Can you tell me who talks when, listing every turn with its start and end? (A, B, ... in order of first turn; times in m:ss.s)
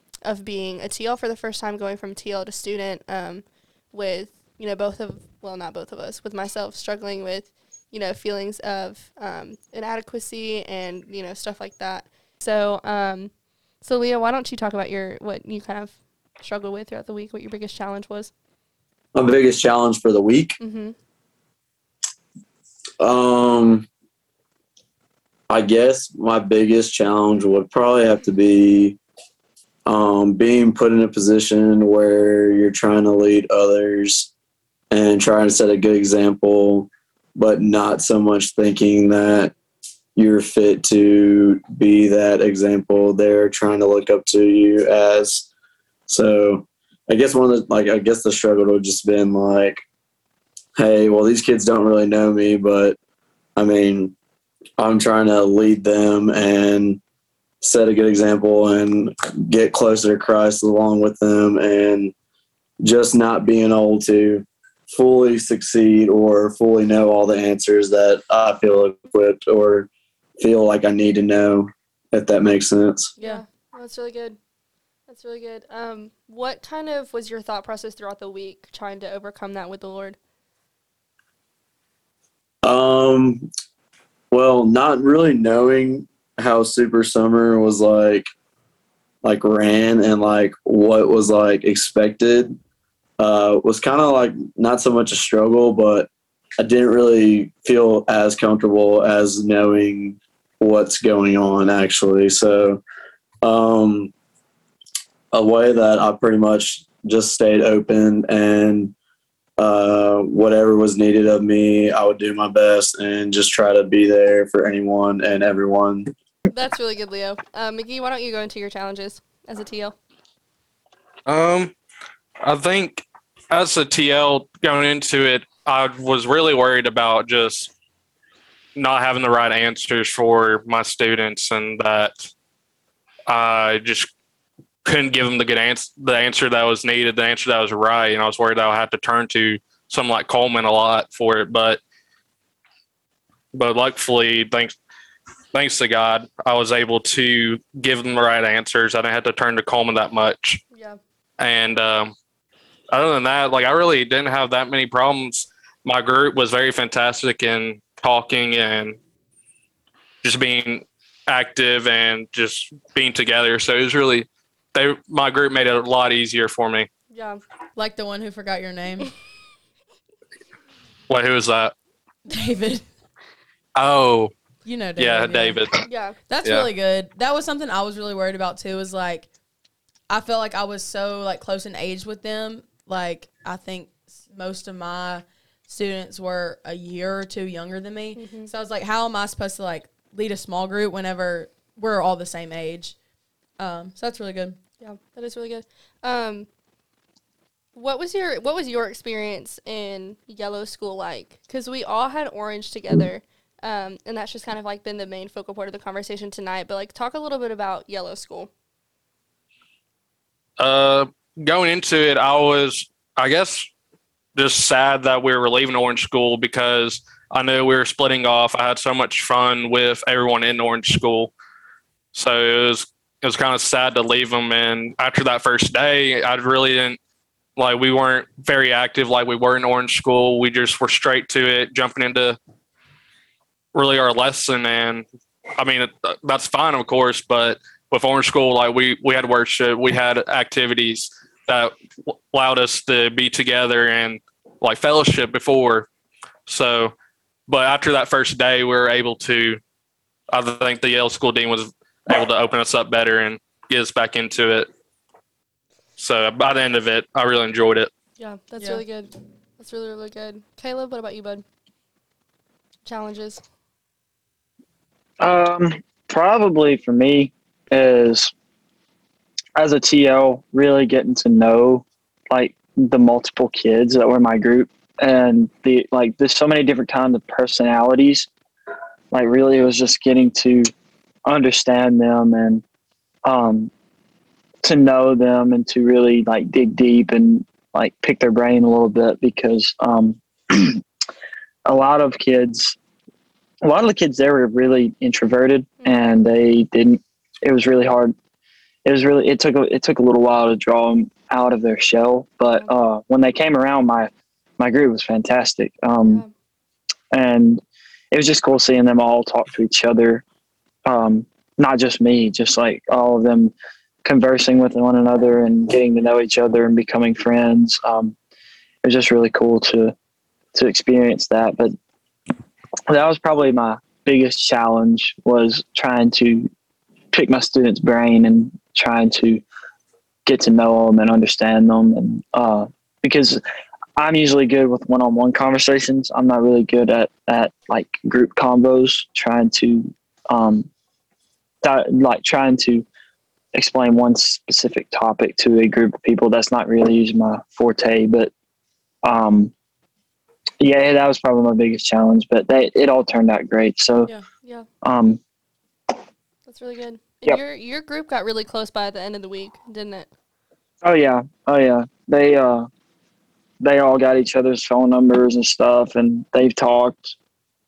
0:00.2-0:18.3 A
0:19.2-0:20.6 B
0:20.6-0:21.0 A
0:23.0-0:23.9 B
0:25.5-0:29.0 B
0:29.9-0:34.3 B
0:34.9-0:39.5 B
0:40.2-0:45.5 B
0:46.1-0:49.8 B
0:50.8-0:53.0 B
0:53.6-0:54.2 B
0:54.8-0:57.0 B
0:57.6-1:02.1 B
1:02.8-1:09.9 B
1:10.4-1:13.1 B
1:13.2-1:14.4 A
1:15.1-1:20.2 A
1:22.6-1:23.5 B
1:24.3-1:28.3 B
1:29.2-1:32.6 B
1:33.2-1:42.8 B
1:43.4-1:44.1 B
1:45.3-1:48.9 B
1:49.6-1:56.1 B
1:56.5-2:00.0 A
2:01.3-2:01.7 C
2:02.4-2:07.7 C
2:08.8-2:12.3 C
2:13.3-2:14.1 C
2:14.8-2:21.8 C
2:23.5-2:24.7 C
2:25.5-2:30.6 C
2:30.7-2:31.0 A
2:31.4-2:32.1 C
2:32.9-2:39.0 C
2:40.2-2:46.9 C
2:47.1-2:47.4 A
2:47.8-2:49.1 D
2:51.1-2:51.7 C
2:52.3-2:52.9 D
2:53.8-2:54.3 C
2:54.6-2:55.6 D
2:55.0-2:55.8 C
2:55.9-2:56.2 A
2:56.3-2:59.3 D
3:00.1-3:13.0 D
3:08.2-3:08.5 A
3:13.6-3:14.6 D
3:14.8-3:16.5 A
3:17.7-3:28.5 A
3:30.6-3:33.7 C
3:34.4-3:41.3 C
3:42.1-3:47.0 C
3:47.6-3:52.4 C
3:53.7-3:55.1 C
3:55.6-4:01.7 C
4:02.3-4:05.9 C
4:06.5-4:06.9 C
4:07.5-4:09.6 C
4:10.3-4:14.7 C
4:16.0-4:17.9 C
4:18.2-4:21.4 A
4:22.8-4:23.4 A
4:25.2-4:28.3 E
4:29.6-4:38.3 E
4:39.1-4:40.7 E
4:41.3-4:42.6 E
4:43.2-4:43.7 E
4:44.6-4:50.8 E
4:51.7-4:52.8 E
4:53.6-4:58.2 E
4:58.8-5:06.2 E
5:06.0-5:06.3 A
5:07.1-5:10.2 E
5:10.9-5:18.2 E
5:18.8-5:20.0 E
5:20.5-5:21.8 E
5:22.9-5:26.5 E
5:27.1-5:29.4 E
5:30.2-5:33.4 E
5:34.0-5:40.7 E
5:41.6-5:42.8 E
5:43.5-5:48.3 E
5:49.0-5:49.5 E
5:50.6-5:54.1 E
5:54.8-5:55.2 E
5:56.5-6:00.1 A
6:00.8-6:02.7 E
6:03.6-6:07.1 E